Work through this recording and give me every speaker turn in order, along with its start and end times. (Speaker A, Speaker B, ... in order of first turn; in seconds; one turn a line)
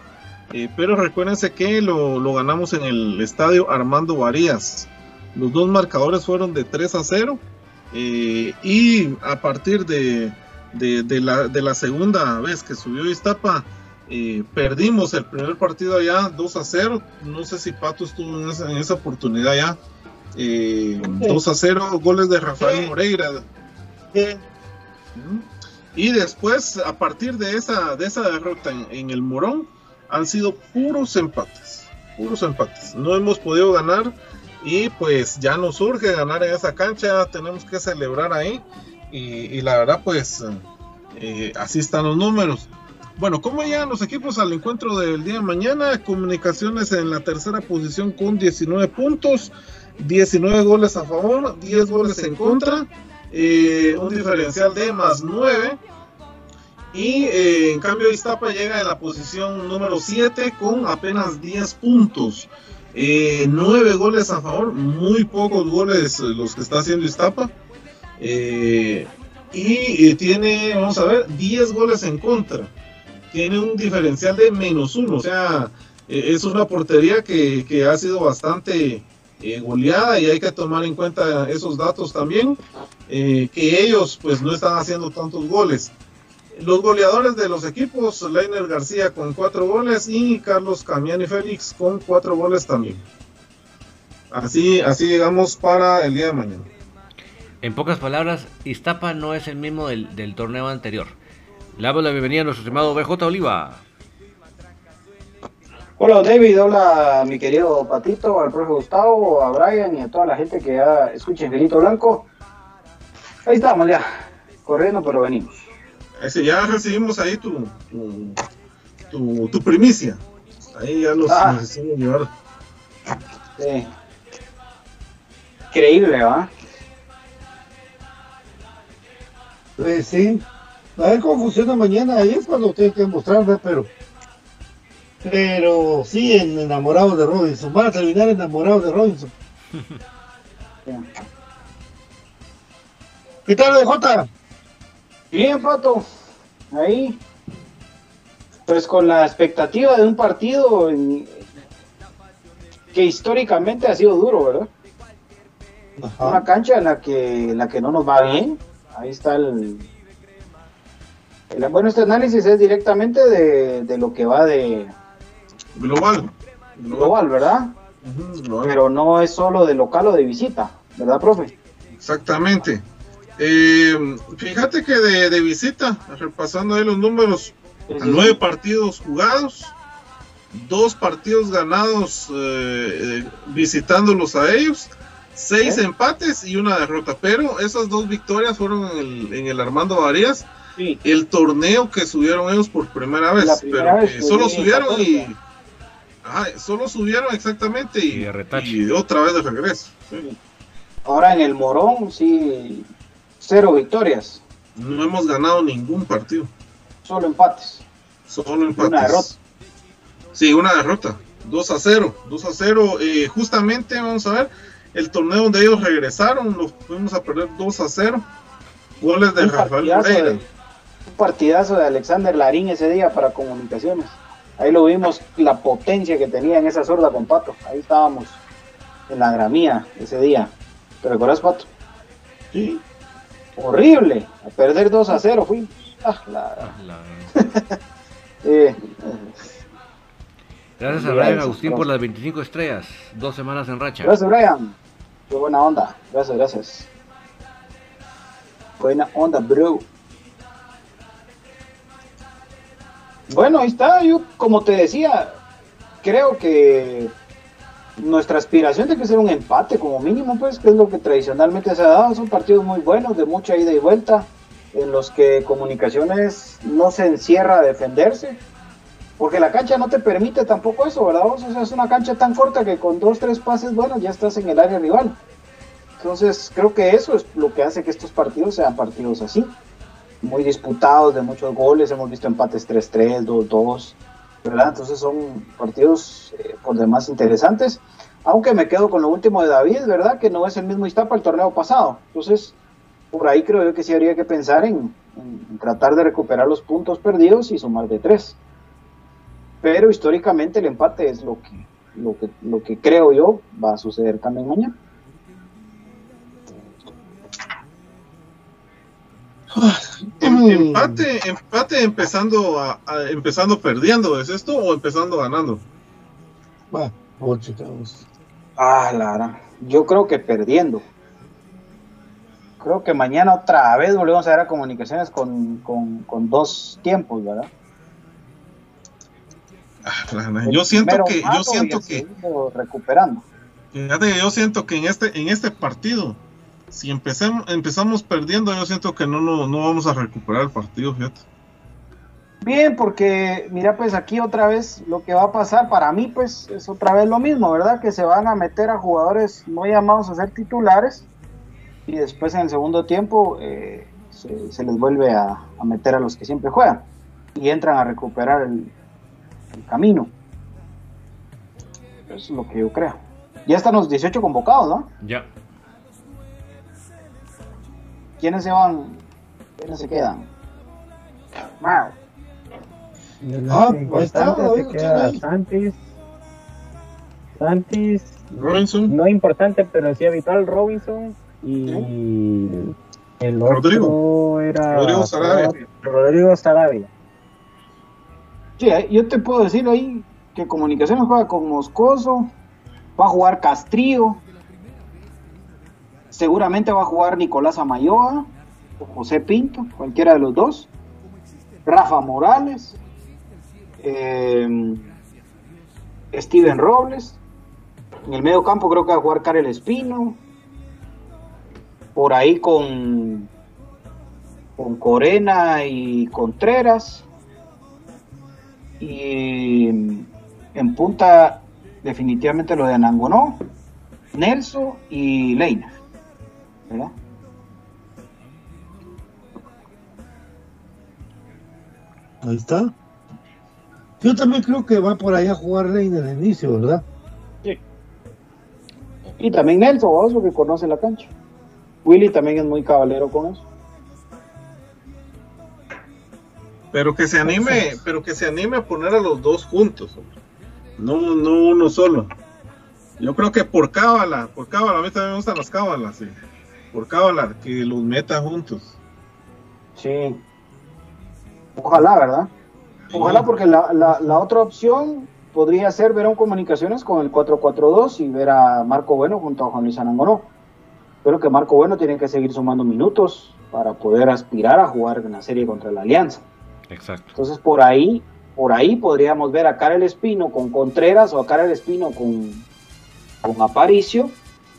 Speaker A: 0.5-19.8
Speaker A: 20.3-23.4
Speaker B: 21.0-21.4
Speaker B: 22.6-22.9
Speaker B: 24.1-24.4
Speaker A: 25.1-40.6
Speaker A: 41.1-55.8
Speaker A: 56.9-67.5
Speaker A: 68.2-72.7
Speaker A: 73.3-82.6
Speaker A: 83.1-85.9
Speaker A: 86.5-93.0
Speaker A: 94.3-96.7
Speaker C: 97.6-101.1
Speaker C: 101.8-103.8
Speaker D: 106.0-112.2
Speaker D: 113.5-114.1
Speaker D: 114.6-115.6
Speaker A: 116.2-118.4
Speaker A: 119.1-120.2
Speaker A: 120.7-122.3
Speaker D: 121.3-121.6
Speaker D: 123.6-123.9
Speaker D: 125.7-126.5
Speaker B: 129.8-133.9
Speaker B: 135.2-139.3
Speaker B: 143.4-144.3
Speaker D: 145.3-146.0
Speaker D: 146.7-147.2
Speaker D: 148.7-151.5
Speaker D: 152.9-154.7
Speaker B: 156.0-156.4
Speaker D: 156.2-159.8
Speaker D: 161.5-164.9
Speaker A: 165.7-167.2
Speaker D: 166.9-167.8
Speaker A: 168.0-168.8
Speaker D: 168.6-171.6
Speaker A: 172.0-172.8
Speaker A: 173.4-179.7
Speaker D: 177.9-178.4
Speaker A: 180.5-190.5
Speaker A: 191.0-195.4
Speaker D: 193.4-195.3
Speaker A: 196.2-200.3
Speaker C: 198.1-198.8
Speaker D: 201.0-202.9
Speaker D: 203.4-204.4
Speaker A: 204.8-206.5
Speaker D: 207.0-207.8
Speaker A: 208.3-209.3
Speaker D: 208.7-209.3
Speaker A: 210.3-218.2
Speaker A: 219.0-220.4
Speaker D: 219.4-220.4
Speaker D: 221.1-228.4
Speaker D: 229.1-231.7
Speaker B: 232.5-232.8
Speaker D: 233.6-236.7
Speaker C: 236.6-237.3
Speaker D: 237.3-237.7
Speaker D: 238.4-239.6
Speaker C: 240.8-244.1
Speaker D: 240.9-241.9
Speaker D: 244.0-244.7
Speaker D: 245.3-246.9
Speaker D: 248.8-249.8
Speaker D: 253.3-255.4
Speaker D: 256.0-257.1
Speaker D: 258.0-268.4
Speaker D: 269.2-275.2
Speaker D: 276.0-279.5
Speaker D: 280.2-292.5
Speaker D: 293.1-298.4
Speaker D: 299.6-304.7
Speaker B: 309.5-311.0
Speaker A: 310.2-315.6
Speaker B: 316.7-318.0
Speaker D: 318.6-320.8
Speaker D: 322.6-327.5
Speaker A: 329.8-332.0
Speaker D: 330.4-333.2
Speaker A: 333.7-341.2
Speaker D: 342.4-351.1
Speaker D: 351.9-358.7
Speaker D: 359.5-360.1
Speaker D: 362.1-364.9
Speaker C: 365.0-365.3
Speaker D: 368.2-369.0
Speaker D: 369.6-370.3
Speaker D: 371.6-371.9
Speaker E: 373.2-375.8
Speaker B: 373.5-375.2
Speaker E: 377.4-386.9
Speaker A: 378.4-378.9
Speaker A: 383.4-383.9
Speaker A: 384.7-385.5
Speaker D: 388.6-392.3
Speaker D: 393.0-394.2
Speaker D: 396.1-400.7
Speaker D: 401.6-402.8
Speaker D: 403.8-404.8
Speaker D: 406.1-407.2
Speaker D: 408.1-410.2
Speaker D: 411.9-413.3
Speaker D: 414.6-417.1
Speaker D: 418.8-423.4
Speaker D: 424.1-425.7
Speaker D: 426.7-426.9
Speaker B: 432.2-432.7
Speaker B: 434.0-436.8
Speaker D: 439.2-441.1
Speaker D: 441.8-443.4
Speaker A: 446.7-450.1
Speaker B: 447.2-447.6
Speaker A: 450.8-452.1
Speaker A: 453.0-456.1
Speaker A: 456.7-458.7
Speaker D: 459.8-460.2
Speaker D: 461.6-462.3
Speaker A: 462.9-463.2
Speaker D: 462.9-470.3
Speaker D: 471.0-476.2
Speaker C: 476.7-477.1
Speaker D: 477.1-482.4
Speaker D: 483.2-484.2